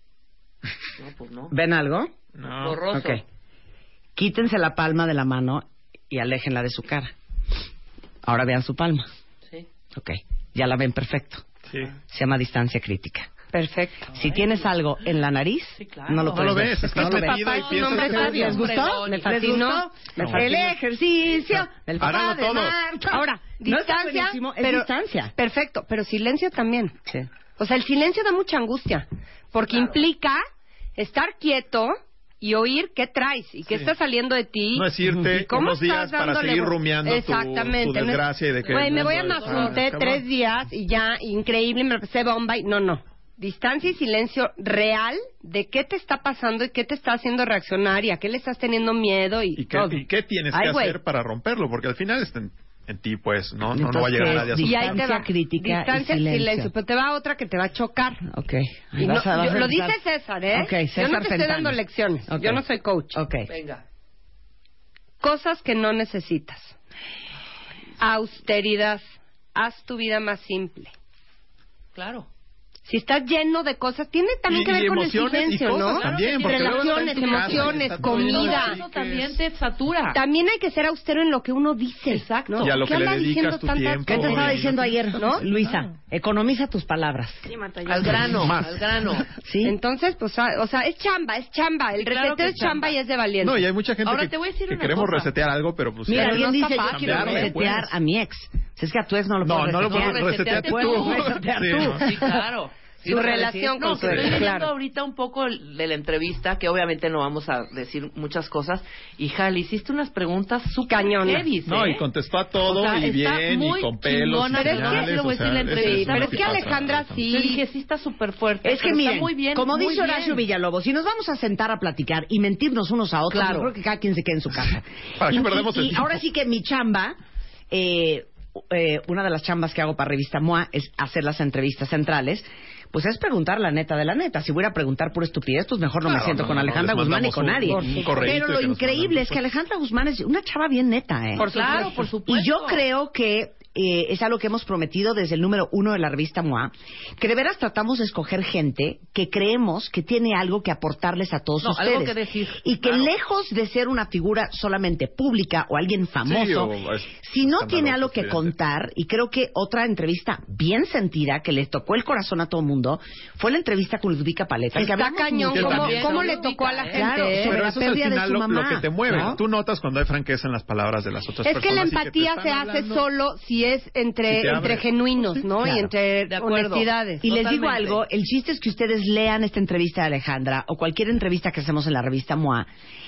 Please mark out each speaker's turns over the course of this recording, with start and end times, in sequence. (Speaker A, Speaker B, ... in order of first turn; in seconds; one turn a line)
Speaker A: 1.0-1.5
Speaker B: 1.5-2.1
Speaker C: 2.4-2.9
Speaker A: 2.6-3.2
Speaker B: 2.9-3.2
Speaker B: 4.2-7.1
Speaker B: 8.2-9.1
Speaker B: 9.9-11.5
Speaker B: 12.1-13.3
Speaker D: 13.5-14.1
Speaker B: 14.1-25.3
Speaker A: 14.2-14.7
Speaker A: 15.8-16.6
Speaker C: 16.3-18.6
Speaker D: 16.7-20.7
Speaker A: 17.4-19.7
Speaker C: 20.2-20.4
Speaker C: 21.5-22.8
Speaker D: 23.1-26.9
Speaker D: 27.6-30.4
Speaker D: 31.0-51.0
Speaker C: 34.7-40.2
Speaker A: 38.6-39.8
Speaker C: 49.6-55.0
Speaker B: 53.7-56.7
Speaker D: 54.2-58.2
Speaker B: 58.2-60.0
Speaker D: 59.0-63.2
Speaker B: 60.5-62.6
Speaker B: 63.1-63.5
Speaker A: 63.5-63.8
Speaker D: 65.2-66.8
Speaker D: 68.0-70.9
Speaker A: 71.9-72.3
Speaker D: 72.9-78.8
Speaker C: 74.5-79.4
Speaker A: 75.8-80.2
Speaker D: 80.1-84.6
Speaker A: 82.1-82.7
Speaker C: 82.6-85.8
Speaker B: 84.1-87.5
Speaker D: 85.1-85.4
Speaker A: 87.8-89.3
Speaker C: 88.2-88.9
Speaker B: 89.4-89.8
Speaker D: 89.6-93.6
Speaker A: 92.0-93.0
Speaker C: 93.4-97.9
Speaker A: 94.0-95.3
Speaker B: 96.1-102.2
Speaker D: 96.1-97.6
Speaker C: 99.4-102.0
Speaker A: 99.8-112.0
Speaker D: 103.0-104.7
Speaker B: 103.9-104.5
Speaker D: 110.9-111.5
Speaker C: 111.7-117.2
Speaker A: 112.6-116.7
Speaker D: 114.5-115.1
Speaker D: 115.7-117.6
Speaker A: 117.2-120.4
Speaker B: 118.6-127.2
Speaker A: 123.3-123.7
Speaker C: 124.5-126.2
Speaker B: 127.7-166.4
Speaker C: 136.0-139.4
Speaker D: 137.6-138.3
Speaker D: 141.4-142.0
Speaker A: 141.4-142.8
Speaker A: 151.6-153.1
Speaker C: 156.2-158.5
Speaker D: 164.7-167.6
Speaker C: 165.5-166.2
Speaker A: 165.5-167.0
Speaker B: 166.9-169.4
Speaker C: 167.3-173.1
Speaker D: 171.4-177.2
Speaker C: 174.3-175.4
Speaker B: 175.6-175.9
Speaker A: 176.3-178.0
Speaker B: 177.2-182.7